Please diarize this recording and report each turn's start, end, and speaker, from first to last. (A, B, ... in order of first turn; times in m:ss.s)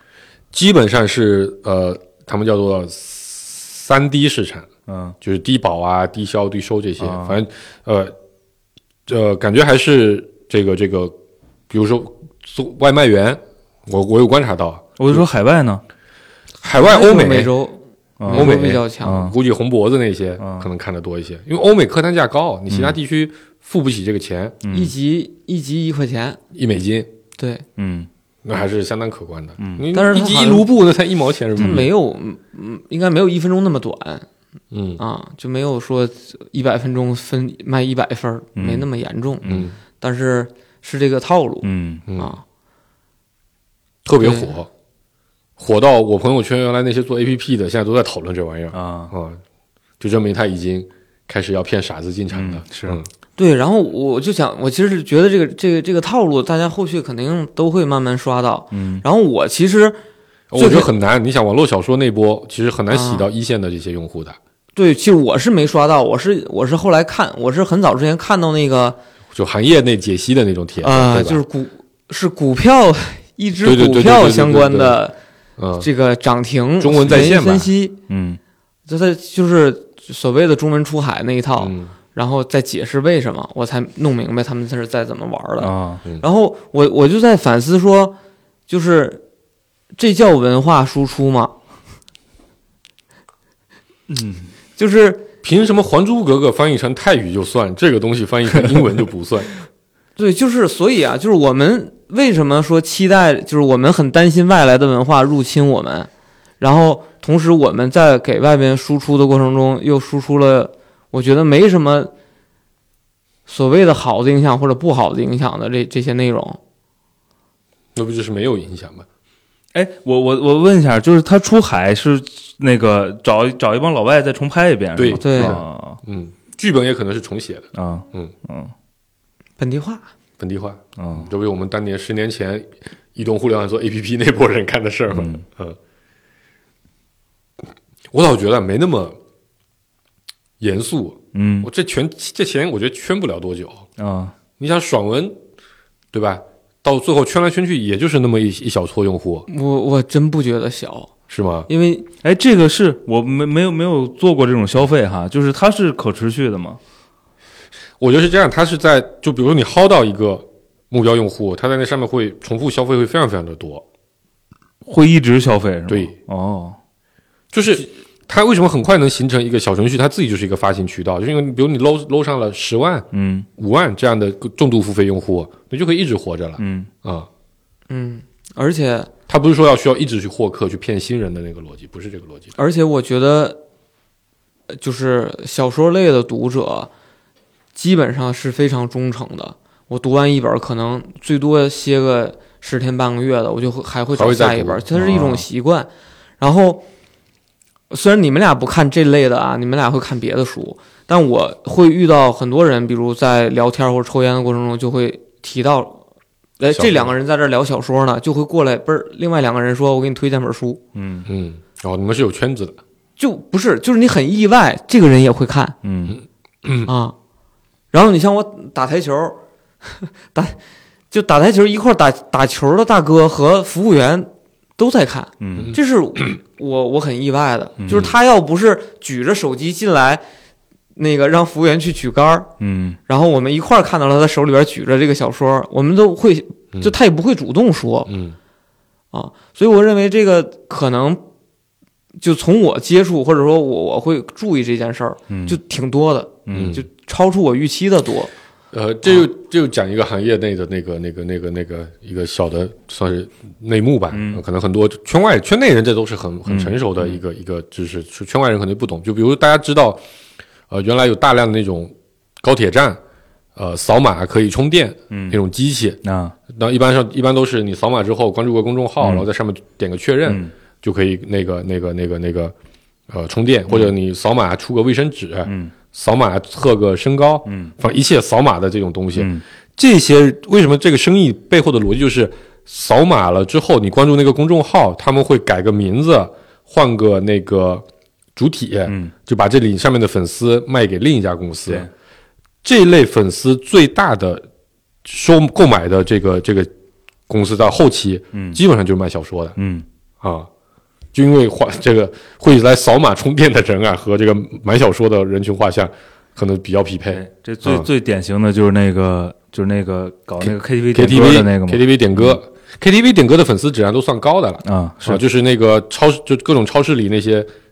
0:00.5-0:04.7 A
0:04.9-0:05.1 B
0:05.2-0:08.1 A
0:07.0-0:07.4 B
0:09.1-0:11.2 A
0:11.7-0:15.2 A
0:15.0-0:15.8 B
0:16.6-0:17.5 A
0:16.7-0:19.3 C
0:18.2-0:19.3 B
0:18.3-0:24.6 A
0:20.4-0:20.7 B
0:22.7-0:23.0 B
0:24.6-0:24.9 B
0:24.7-0:26.4 C
0:26.5-0:27.1 A
0:27.4-0:27.6 C
0:27.8-0:28.1 B
0:28.4-0:31.9 A
0:29.6-0:29.8 B
0:29.9-0:30.7 C
0:31.6-0:34.2 C
0:31.6-0:31.9 B
0:34.7-0:35.0 A
0:35.0-0:42.4 C
0:38.6-0:38.8 B
0:39.4-0:39.7 A
0:41.6-0:42.0 B
0:42.1-0:42.3 A
0:44.0-0:44.7 A
0:44.2-0:44.5 C
0:45.6-0:49.4 A
0:48.7-0:49.1 B
0:50.0-0:53.1 A
0:52.3-0:53.0 B
0:53.4-1:00.0 C
0:58.7-0:59.0 B
1:00.5-1:04.4 A
1:00.6-1:00.9 C
1:02.9-1:03.3 C
1:04.8-1:09.0 C
1:09.3-1:11.4 A
1:10.8-1:15.1 C
1:13.6-1:15.0 A
1:15.6-1:15.9 A
1:15.8-1:18.0 C
1:16.8-1:17.7 A
1:18.1-1:18.4 B
1:18.9-1:28.2 C
1:21.6-1:21.9 A
1:25.6-1:26.0 B
1:28.7-1:29.2 C
1:30.0-1:31.5 C
1:34.1-1:34.5 B
1:34.8-1:35.3 C
1:35.4-1:39.5 A
1:40.2-1:52.1 C
1:53.5-1:56.6 C
1:57.9-1:59.0 A
1:59.7-2:06.0 B
2:05.0-2:08.3 A
2:05.1-2:05.6 C
2:07.7-2:08.7 B
2:09.6-2:10.1 C
2:10.4-2:15.8 A
2:11.0-2:11.3 B
2:15.1-2:15.4 B
2:18.1-2:19.2 A
2:20.6-2:23.8 A
2:21.3-2:21.7 B
2:24.0-2:24.3 B
2:24.6-2:25.4 A
2:26.1-2:29.4 A
2:29.5-2:31.1 C
2:31.3-2:31.7 A
2:31.7-2:32.1 C
2:32.2-2:36.8 B
2:38.0-2:43.8 A
2:44.8-2:46.8 B
2:47.5-2:53.0 A
2:53.1-2:53.5 B
2:53.6-2:57.3 A
2:56.6-2:56.9 B
2:57.9-2:59.1 C
2:59.3-3:02.5 A
3:02.6-3:03.6 C
3:04.7-3:06.9 C
3:07.7-3:15.9 C
3:14.1-3:14.8 A
3:14.9-3:15.4 B
3:16.4-3:16.8 C
3:17.9-3:26.0 C
3:26.6-3:30.8 C
3:26.7-3:27.1 A
3:30.9-3:31.3 B
3:31.2-3:32.8 A
3:33.2-3:35.7 C
3:35.8-3:36.2 B
3:36.6-3:36.9 A
3:36.8-3:37.1 C
3:37.9-3:40.6 C
3:41.1-3:50.2 C
3:45.4-3:45.7 B
3:47.8-3:48.1 B
3:47.9-3:48.1 A
3:51.0-3:52.5 C
3:52.6-3:53.0 B
3:53.1-3:58.1 C
3:58.1-3:58.4 A
3:59.1-4:01.2 C
4:02.2-4:08.3 C
4:05.3-4:05.6 B
4:06.5-4:06.8 B
4:06.5-4:06.8 A
4:08.7-4:20.0 A
4:14.1-4:14.4 B
4:16.5-4:17.1 B
4:20.7-4:23.0 A
4:23.6-4:26.0 A
4:25.1-4:25.4 B
4:26.0-4:26.3 B
4:26.5-4:32.5 A
4:29.0-4:29.3 B
4:30.2-4:30.5 B
4:33.1-4:47.8 A
4:35.4-4:35.7 B
4:37.4-4:37.7 B
4:39.1-4:39.4 B
4:48.4-4:51.9 A
4:52.6-4:54.4 A
4:55.0-4:56.7 A
4:57.3-4:59.6 A
4:58.3-4:58.6 B
4:59.6-4:59.8 B
5:00.2-5:00.5 A
5:01.1-5:07.9 A
5:07.1-5:12.4 B
5:10.4-5:17.5 A
5:14.6-5:15.2 B